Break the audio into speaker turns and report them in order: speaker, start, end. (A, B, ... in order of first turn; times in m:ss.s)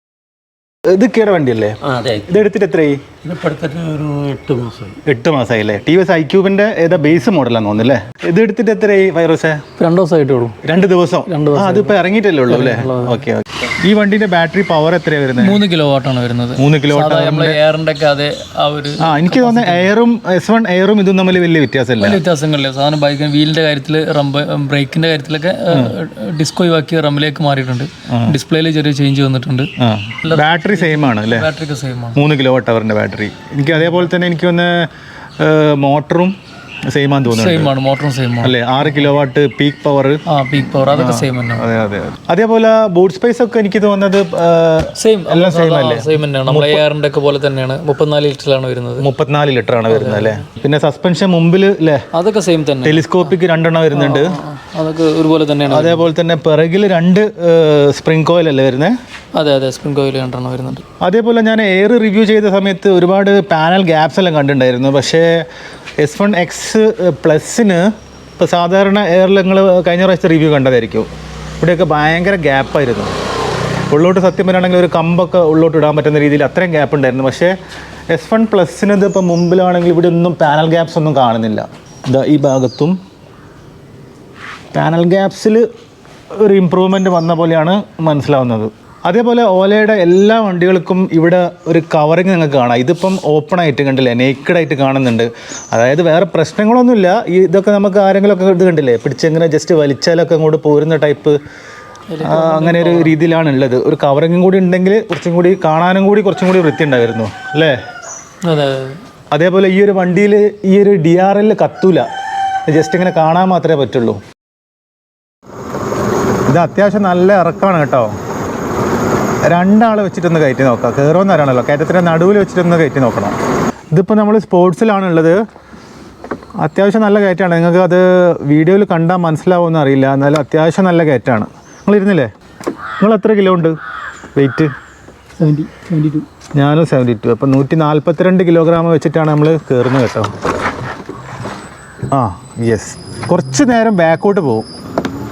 0:00.9-0:03.0 A
0:01.9-0:02.3 B
0:03.2-0:05.0 B
0:05.0-0:09.6 A
0:09.8-0:10.6 C
0:10.6-0:15.6 A
0:11.3-0:13.3 C
0:15.4-0:19.9 C
0:16.6-0:17.6 A
0:19.0-0:22.2 A
0:22.0-0:29.7 C
0:29.8-0:31.5 A
0:30.2-0:32.2 C
0:32.1-0:36.3 A
0:36.9-0:37.7 A
0:37.2-0:38.6 C
0:38.4-0:40.2 A
0:40.2-0:41.7 C
0:40.8-0:46.8 A
0:45.0-0:49.1 C
0:49.0-0:52.0 A
0:49.9-0:50.4 C
0:52.1-0:53.2 C
0:52.8-0:54.4 A
0:53.9-0:56.1 C
0:55.6-0:58.9 A
0:59.3-1:00.8 C
1:01.0-1:05.4 A
1:06.0-1:11.1 A
1:11.6-1:13.1 A
1:13.9-1:17.5 A
1:18.1-1:23.0 A
1:24.7-1:25.6 A
1:26.3-1:41.4 A
1:42.1-1:43.2 C
1:42.2-1:47.8 A
1:48.4-1:49.0 C
1:49.3-1:52.1 A
1:52.7-1:54.2 A
1:56.5-1:58.1 A
1:59.5-2:03.4 A
2:03.9-2:05.4 A
2:06.6-2:12.3 A
2:13.0-2:13.8 A
2:14.4-2:14.7 A
2:15.4-2:16.3 C
2:16.6-2:20.3 A
2:22.1-2:24.7 A